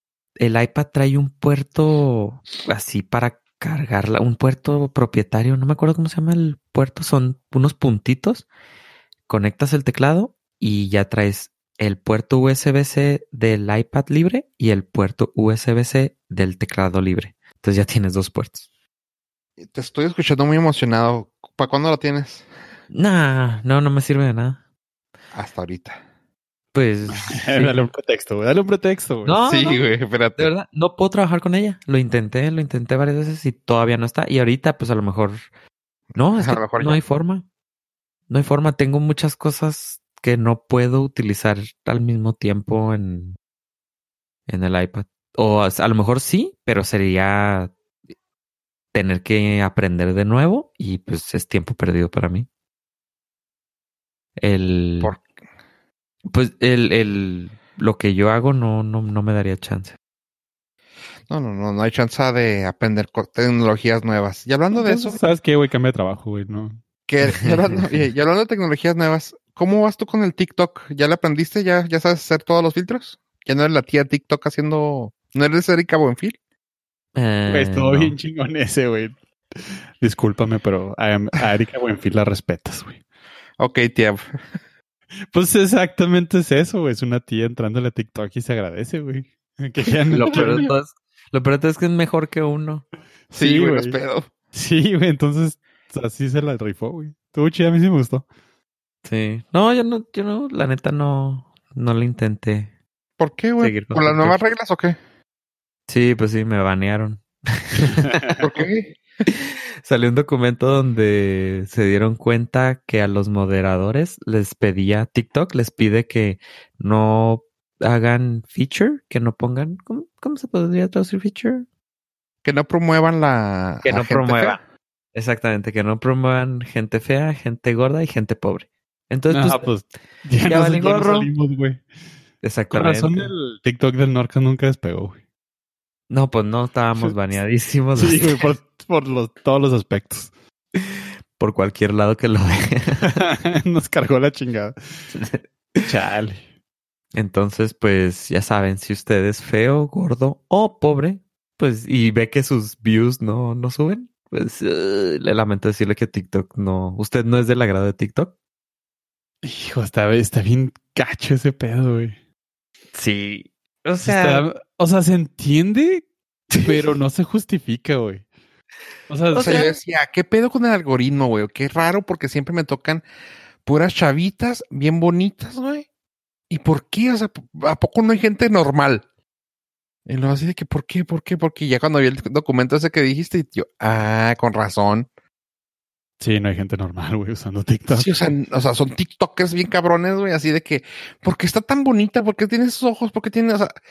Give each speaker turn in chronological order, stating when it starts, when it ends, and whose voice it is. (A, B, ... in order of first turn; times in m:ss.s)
0:00.4-0:08.5 A
0:09.3-0:18.6 A
0:19.6-0:22.4 B
0:22.9-0:24.6 A
0:25.3-0:26.0 B
0:26.7-0:27.7 A
0:27.1-0:29.4 C
0:29.2-0:29.8 A
0:29.4-0:30.5 B
0:30.4-0:35.4 A
0:36.1-0:37.4 A
0:36.4-0:37.0 B
0:38.3-0:43.4 A
0:44.5-0:47.7 A
0:48.9-0:52.5 A
0:54.4-0:55.1 A
0:56.2-1:00.0 A
1:01.3-1:05.2 B
1:04.7-1:06.8 C
1:07.1-1:16.4 B
1:17.1-1:18.1 A
1:17.5-1:23.0 C
1:23.6-1:24.4 B
1:25.3-1:30.7 C
1:30.1-1:32.8 A
1:33.3-1:34.0 C
1:33.3-1:34.3 B
1:34.5-1:38.2 C
1:39.0-1:42.7 A
1:43.2-1:45.0 B
1:43.6-1:44.4 A
1:45.9-1:48.4 A
1:48.4-1:49.0 B
1:49.3-2:01.6 A
2:02.4-2:04.6 B
2:03.8-2:04.6 A
2:05.1-2:09.7 A
2:09.3-2:11.8 C
2:10.4-2:11.3 A
2:12.4-2:13.3 A
2:12.7-2:15.2 C
2:16.1-2:18.5 A
2:17.9-2:20.3 C
2:20.8-2:23.2 A
2:23.0-2:24.8 C
2:25.1-2:25.8 A
2:25.8-2:26.4 C
2:27.1-2:38.3 A
2:39.4-2:42.2 C
2:42.9-2:44.4 A
2:44.0-2:48.2 C
2:46.5-2:46.9 A
2:49.1-2:49.6 C
2:49.3-2:49.7 A
2:49.4-2:53.0 B
2:53.6-2:55.9 B
2:56.5-2:59.0 B
3:00.0-3:05.1 B
3:06.2-3:08.1 C
3:07.9-3:13.7 B